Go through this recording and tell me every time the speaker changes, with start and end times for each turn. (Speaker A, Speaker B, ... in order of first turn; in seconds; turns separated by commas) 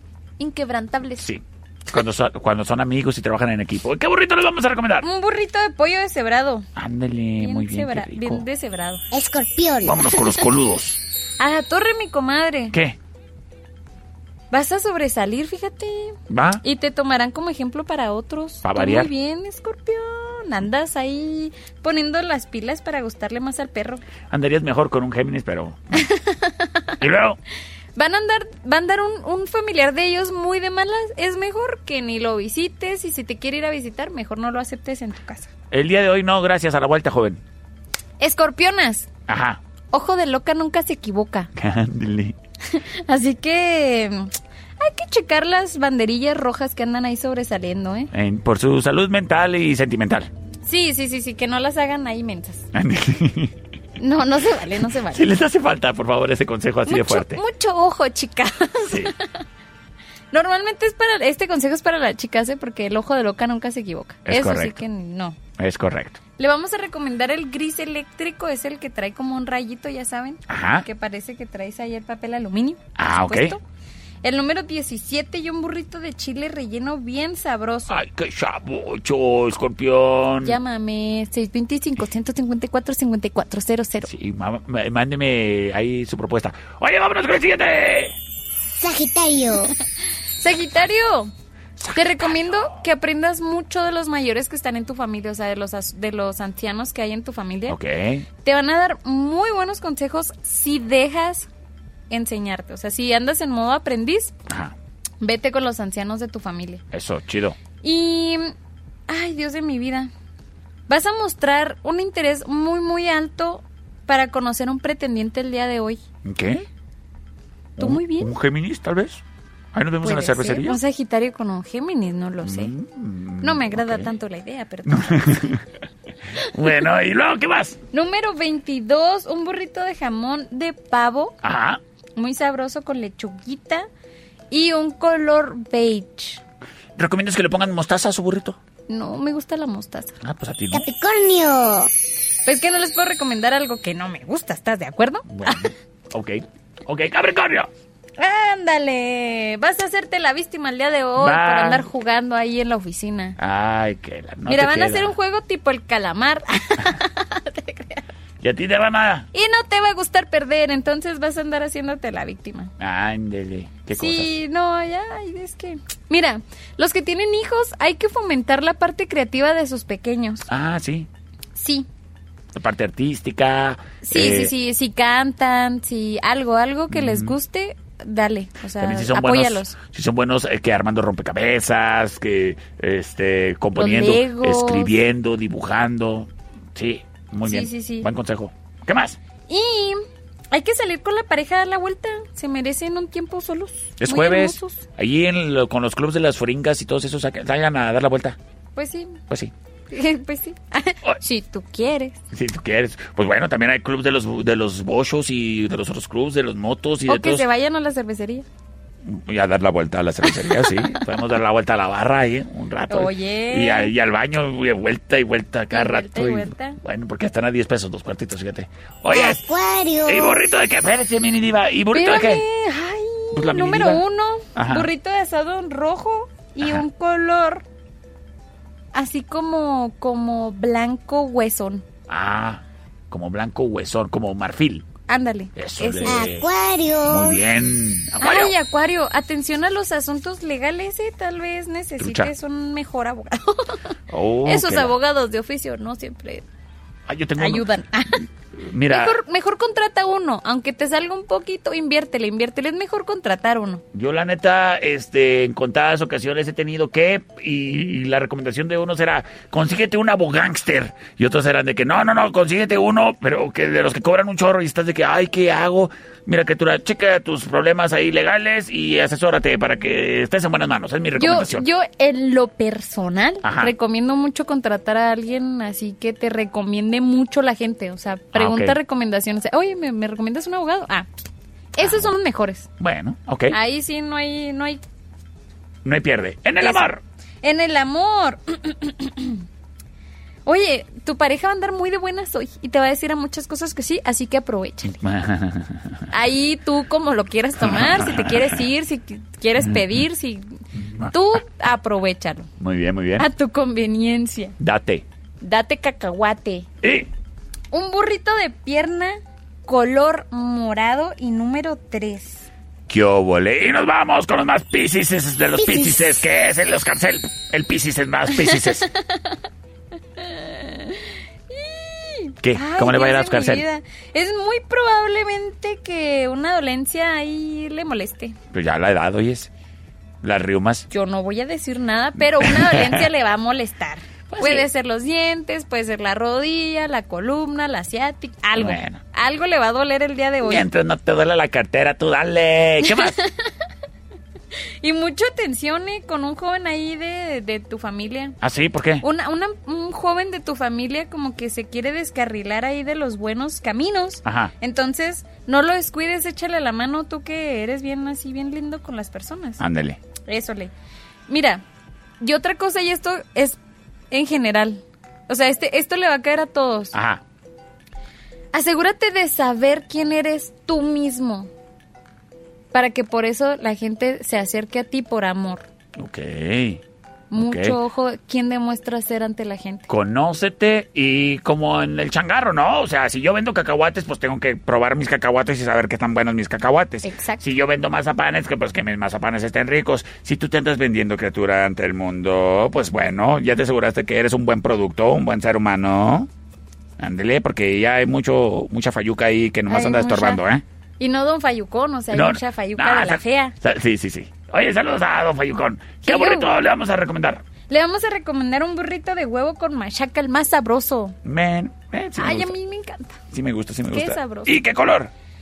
Speaker A: 0.4-1.2, Speaker B: 1.2-5.1, Speaker A: 5.0-6.7, Speaker B: 6.8-8.4, Speaker A: 7.4-9.0, Speaker C: 9.1-10.4, Speaker B: 9.8-11.0, Speaker A: 11.4-12.8, Speaker B: 12.7-13.0, Speaker A: 14.5-24.1, Speaker B: 16.3-16.6, Speaker B: 18.6-19.1, Speaker B: 24.3-26.1, Speaker A: 25.9-27.0, Speaker B: 27.0-27.4, Speaker A: 28.0-35.5, Speaker B: 35.7-37.4, Speaker A: 38.2-39.1, Speaker B: 39.3-39.6, Speaker A: 39.9-41.5, Speaker B: 41.6-42.4, Speaker A: 42.7-48.1, Speaker B: 48.1-50.3, Speaker A: 50.6-52.7, Speaker B: 52.7-53.6, Speaker A: 54.0-55.3, Speaker B: 55.1-57.4, Speaker A: 56.9-59.3, Speaker B: 58.9-59.1, Speaker A: 60.3-65.4, Speaker B: 64.3-64.8, Speaker B: 65.6-66.2, Speaker A: 66.4-73.6, Speaker B: 70.5-70.9, Speaker B: 73.0-73.6, Speaker A: 74.2-78.0, Speaker B: 77.9-80.6, Speaker A: 80.4-84.1, Speaker B: 84.0-88.2, Speaker C: 88.6-89.8, Speaker A: 90.4-91.3, Speaker B: 91.8-92.7, Speaker A: 91.9-97.8, Speaker B: 97.7-98.3, Speaker A: 98.4-101.5, Speaker A: 102.1-104.3, Speaker B: 104.5-104.8, Speaker A: 105.2-106.8, Speaker B: 106.9-107.6, Speaker A: 107.8-108.5, Speaker A: 109.1-110.1, Speaker A: 110.9-116.0, Speaker B: 116.2-116.7, Speaker B: 117.8-120.8, Speaker A: 117.8-118.3, Speaker A: 120.0-122.7, Speaker B: 122.4-124.1, Speaker A: 123.4-125.6, Speaker B: 124.9-125.6, Speaker B: 126.4-127.8, Speaker A: 127.9-131.4, Speaker B: 131.4-131.8, Speaker A: 132.2-133.9, Speaker A: 134.5-136.4, Speaker B: 137.0-138.6, Speaker A: 138.9-140.2, Speaker B: 140.2-140.9, Speaker C: 140.7-141.9, Speaker A: 142.5-145.6, Speaker B: 145.3-147.7, Speaker A: 148.2-153.4, Speaker B: 151.2-151.9, Speaker B: 153.4-155.2, Speaker A: 154.5-158.1, Speaker B: 158.4-159.3, Speaker A: 159.3-162.7, Speaker B: 162.8-164.4, Speaker A: 163.9-170.5, Speaker B: 170.5-171.1, Speaker A: 171.6-171.9, Speaker B: 172.5-174.5, Speaker A: 174.0-179.8, Speaker B: 176.9-177.3, Speaker B: 178.8-189.2, Speaker A: 183.8-184.9, Speaker A: 187.4-188.1, Speaker A: 189.5-194.9, Speaker B: 194.0-198.4, Speaker A: 198.8-199.2, Speaker A: 199.9-202.2, Speaker B: 202.3-207.5, Speaker A: 207.1-208.5, Speaker B: 209.0-222.4, Speaker A: 210.4-211.0, Speaker A: 212.9-213.9, Speaker A: 215.7-216.8, Speaker C: 219.1-220.4, Speaker A: 221.9-227.7, Speaker B: 223.3-224.0, Speaker B: 224.6-224.9, Speaker A: 228.9-231.8, Speaker B: 232.1-234.9, Speaker A: 235.1-236.3, Speaker B: 235.6-236.5, Speaker C: 236.1-237.4, Speaker B: 237.1-238.5, Speaker A: 238.2-243.9, Speaker B: 242.0-242.3, Speaker B: 244.1-244.9, Speaker A: 244.4-246.5, Speaker B: 247.1-247.7, Speaker A: 247.4-248.3, Speaker B: 248.6-249.2, Speaker A: 248.9-253.8, Speaker B: 253.9-271.6, Speaker A: 271.2-281.1, Speaker B: 273.4-273.7, Speaker B: 278.3-278.8, Speaker A: 281.7-282.7, Speaker B: 281.8-282.1, Speaker B: 282.8-283.6, Speaker A: 283.5-284.8, Speaker B: 285.8-287.0, Speaker A: 287.4-289.4, Speaker A: 290.5-295.0, Speaker B: 295.0-296.1, Speaker A: 296.1-302.5, Speaker B: 297.6-298.6, Speaker B: 299.6-300.0, Speaker B: 300.8-301.1, Speaker B: 302.6-303.3, Speaker A: 303.2-304.6, Speaker B: 304.6-305.1, Speaker A: 305.4-306.7, Speaker B: 306.8-307.1, Speaker A: 307.7-312.5, Speaker B: 312.9-318.9, Speaker A: 318.4-319.4, Speaker A: 320.2-328.4, Speaker B: 322.4-323.7, Speaker B: 328.5-329.5, Speaker B: 330.2-330.9, Speaker A: 330.9-340.7, Speaker B: 332.4-333.1, Speaker B: 334.3-334.7, Speaker B: 338.6-339.0, Speaker B: 340.4-343.2, Speaker A: 343.0-343.5, Speaker A: 344.8-348.4, Speaker B: 348.4-349.1, Speaker A: 349.0-359.6, Speaker B: 354.2-354.5, Speaker B: 359.6-360.0, Speaker A: 360.3-360.7, Speaker A: 361.3-361.6, Speaker A: 362.2-363.6, Speaker A: 364.1-366.9, Speaker B: 366.9-367.2, Speaker A: 368.5-371.5, Speaker A: 372.7-375.7, Speaker B: 376.0-376.8, Speaker A: 377.3-379.9, Speaker B: 377.4-377.8, Speaker B: 379.9-396.3, Speaker A: 387.0-387.4, Speaker B: 397.0-400.6, Speaker A: 399.7-400.4, Speaker A: 401.0-403.6, Speaker B: 402.1-407.4, Speaker A: 406.0-406.5, Speaker A: 407.7-411.2, Speaker B: 411.2-412.5, Speaker A: 412.2-413.2, Speaker B: 413.3-415.1, Speaker A: 413.9-414.6